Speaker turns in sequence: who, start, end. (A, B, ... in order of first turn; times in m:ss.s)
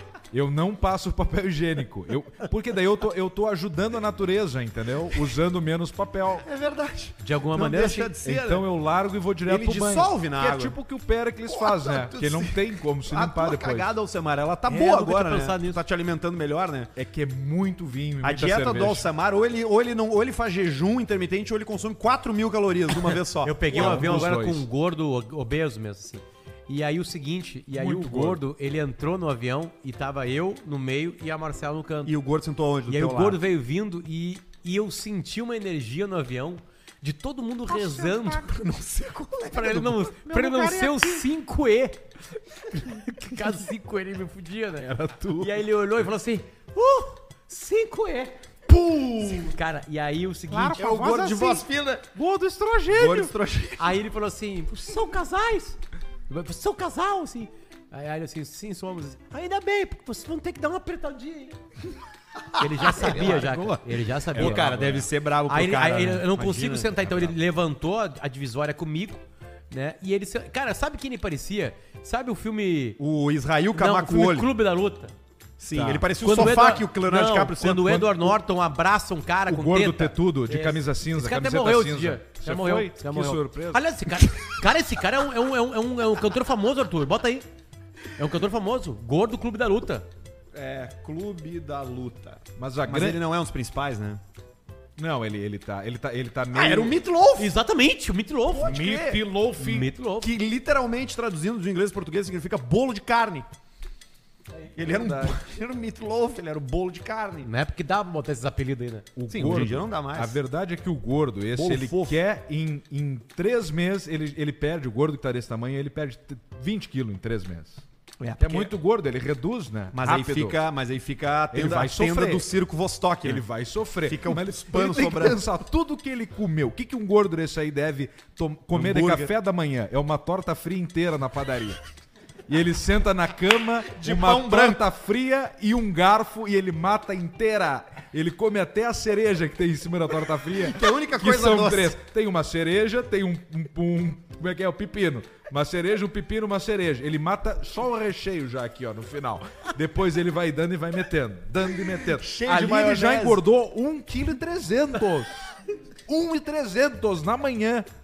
0:00.3-0:06.4 A
0:06.4-0:08.6 B
0:07.2-0:08.1 C
0:08.2-0:13.9 A
0:09.5-0:10.7 B
0:11.5-0:16.9 B
0:14.7-0:15.8 C
0:16.9-0:19.1 A
0:18.2-0:24.3 B
0:23.4-0:32.1 C
0:23.7-0:24.6 A
0:27.7-0:28.4 A
0:32.0-0:33.4 B
0:32.9-0:38.5 C
0:37.7-0:38.4 A
0:38.2-0:40.3 B
0:39.5-0:42.0 C
0:40.2-0:41.3 A
0:42.7-0:48.3 C
0:44.8-0:45.5 A
0:48.7-0:49.5 B
0:49.4-0:51.0 C
0:50.5-0:53.3 A
0:50.7-0:52.0 B
0:52.9-0:53.9 B
0:53.8-0:55.8 C
0:56.3-1:01.6 C
1:02.5-1:03.8 B
1:02.6-1:04.9 C
1:04.3-1:05.1 A
1:04.3-1:07.3 B
1:05.5-1:13.0 C
1:13.0-1:14.5 B
1:13.7-1:15.1 C
1:15.6-1:18.0 B
1:15.7-1:27.4 C
1:17.7-1:18.3 A
1:19.5-1:23.8 A
1:28.2-1:30.1 C
1:30.5-1:34.2 B
1:32.6-1:33.2 A
1:35.0-1:37.0 A
1:36.5-1:37.5 B
1:37.4-1:38.9 C
1:38.5-1:39.2 B
1:38.6-1:39.9 A
1:39.5-1:40.3 C
1:40.2-1:43.5 B
1:44.7-1:47.5 B
1:44.8-1:45.4 A
1:47.4-1:49.1 C
1:49.2-1:57.8 A
1:49.3-1:50.4 B
1:51.5-1:52.2 B
1:58.2-1:58.7 B
1:58.4-2:00.6 A
1:59.9-2:03.4 B
2:01.5-2:02.5 A
2:03.2-2:11.8 A
2:04.0-2:05.5 B
2:08.7-2:09.3 B
2:12.5-2:35.3 A
2:13.9-2:14.8 B
2:20.6-2:22.0 B
2:32.2-2:33.4 B
2:36.1-2:37.8 A